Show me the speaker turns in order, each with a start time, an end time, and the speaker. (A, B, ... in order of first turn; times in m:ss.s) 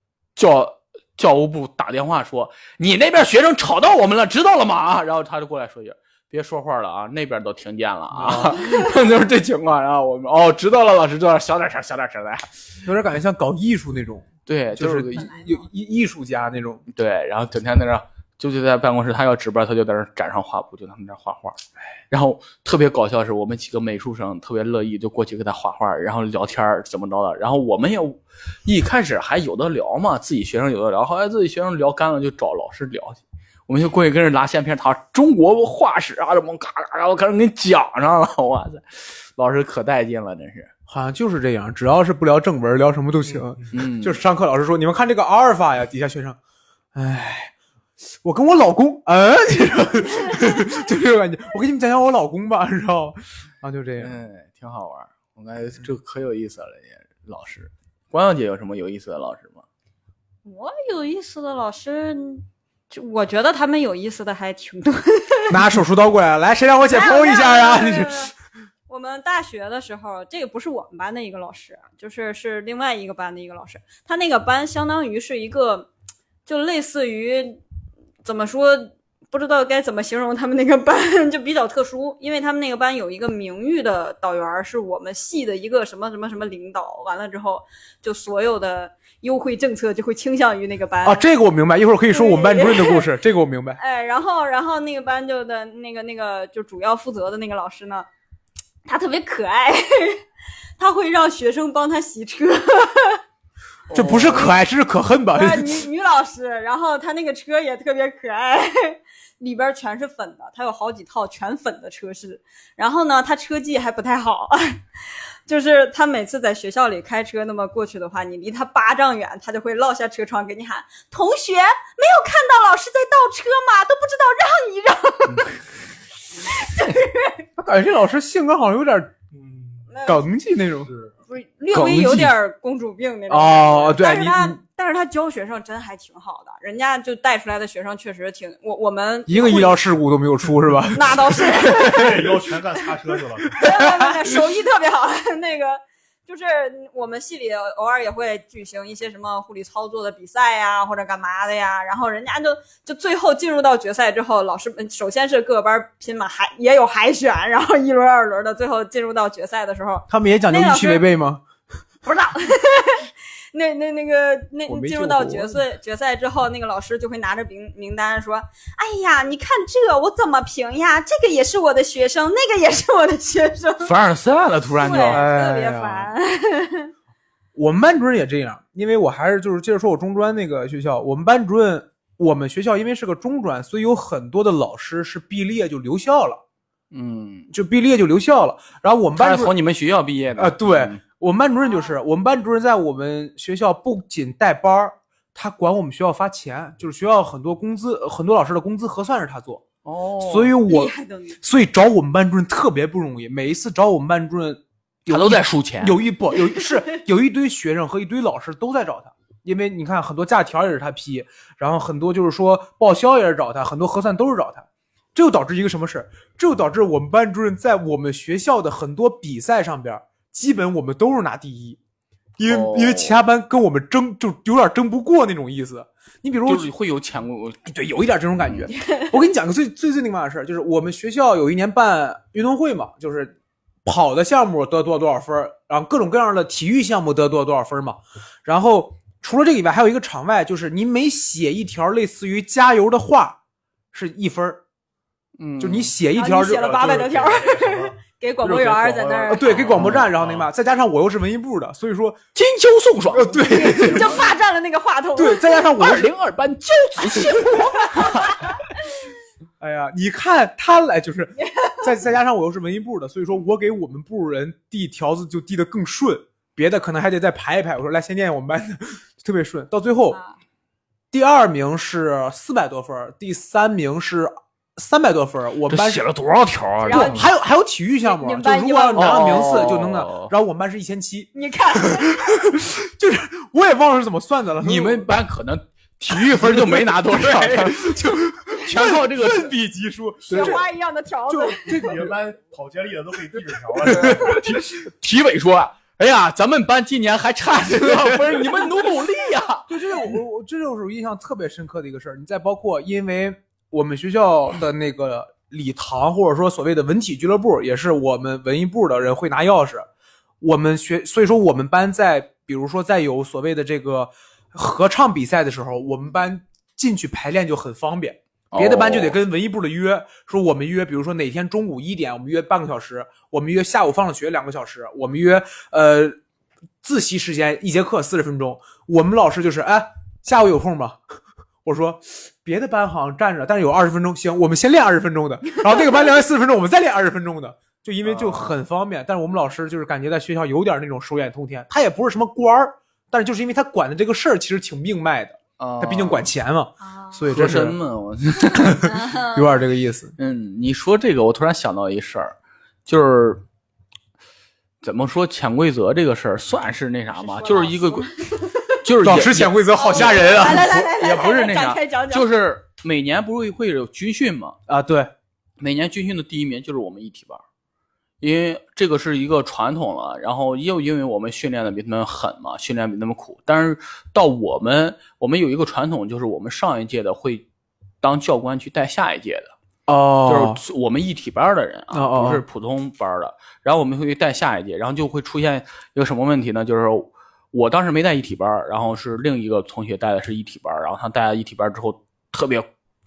0:00.4-0:12.5 A
0:08.1-0:08.6 B
0:12.8-0:16.8 B
0:14.5-0:15.3 A
0:15.1-0:15.6 C
0:16.9-0:21.6 A
0:22.1-0:40.7 A
0:40.9-0:46.4 B
0:43.7-0:44.2 A
0:47.0-0:47.5 B
0:48.2-0:54.2 B
0:54.0-0:59.6 A
1:00.4-1:05.6 C
1:05.5-1:08.3 B
1:06.8-1:08.3 C
1:08.9-1:15.9 C
1:16.5-1:17.6 C
1:18.2-1:31.2 C
1:31.0-1:33.8 B
1:32.1-1:33.1 C
1:33.8-1:38.1 C
1:38.9-1:40.2 C
1:40.8-1:43.2 C
1:43.9-1:44.5 A
1:43.9-1:45.9 B
1:44.0-1:44.5 C
1:45.3-2:05.5 C
2:05.3-2:05.6 A
2:06.4-2:07.4 C
2:07.6-2:09.1 B
2:09.3-2:09.9 D
2:09.9-2:10.2 C
2:10.0-2:10.9 B
2:10.8-2:11.1 D
2:11.3-2:19.8 C
2:11.7-2:12.3 B
2:11.8-2:12.1 A
2:13.3-2:14.6 B
2:19.3-2:22.3 B
2:20.9-2:22.3 C
2:21.7-2:23.6 D
2:23.5-2:41.0 C
2:23.6-2:24.1 B
2:40.1-2:41.4 B
2:42.0-2:53.9 C
2:44.7-2:45.6 B
2:53.8-2:55.2 A
2:54.8-2:56.9 C
2:55.0-2:56.1 B
2:57.6-3:06.4 B
3:06.9-3:07.5 A
3:07.5-3:09.5 B
3:09.2-3:11.0 A
3:10.4-3:19.7 B
3:19.8-3:20.6 A
3:20.2-3:41.8 B
3:20.7-3:21.4 C
3:25.1-3:26.0 A
3:42.4-3:46.7 B
3:42.5-3:43.2 A
3:46.4-3:47.7 A
3:47.7-3:53.3 B
3:48.7-3:49.1 C
3:53.8-4:03.4 B
4:03.9-4:04.6 B
4:05.4-4:05.9 A
4:05.6-4:07.1 B
4:06.1-4:09.5 C
4:06.5-4:10.5 D
4:09.3-4:12.2 B
4:09.7-4:10.1 A
4:12.4-4:14.3 A
4:13.1-4:14.2 B
4:13.4-4:15.5 C
4:15.2-4:16.1 B
4:15.8-4:18.5 A
4:17.6-4:18.6 C
4:19.6-4:30.2 B
4:21.4-4:21.8 C
4:30.1-4:30.4 C
4:31.1-4:36.1 B
4:35.7-4:37.3 A
4:36.8-4:37.3 C
4:36.9-4:45.1 B
4:38.0-4:39.8 C
4:39.0-4:40.3 A
4:41.3-4:42.2 C
4:44.6-4:49.5 A
4:47.2-4:50.6 B
4:50.3-4:50.6 A
4:50.3-4:51.9 C
4:51.3-4:52.1 B
4:51.7-4:54.4 D
4:53.9-4:59.7 A
4:53.9-4:54.3 B
4:59.7-5:09.9 B
5:10.4-5:26.2 B
5:18.5-5:19.2 A
5:26.8-5:31.0 B
5:31.6-5:47.8 B
5:38.0-5:38.6 A
5:45.6-5:46.3 A
5:46.8-5:47.2 C
5:47.3-5:49.0 A
5:48.6-5:50.1 B
5:48.8-5:49.5 C
5:50.2-5:52.3 A
5:52.9-5:53.4 A
5:54.8-5:58.1 A
5:57.2-5:58.7 C
5:58.8-6:04.6 A
5:59.0-6:00.8 B
5:59.8-6:02.3 C
6:04.7-6:05.1 B
6:05.6-6:07.4 A
6:08.2-6:17.4 A
6:18.0-6:19.5 A
6:19.9-6:20.6 B
6:20.3-6:32.7 A
6:21.9-6:22.4 B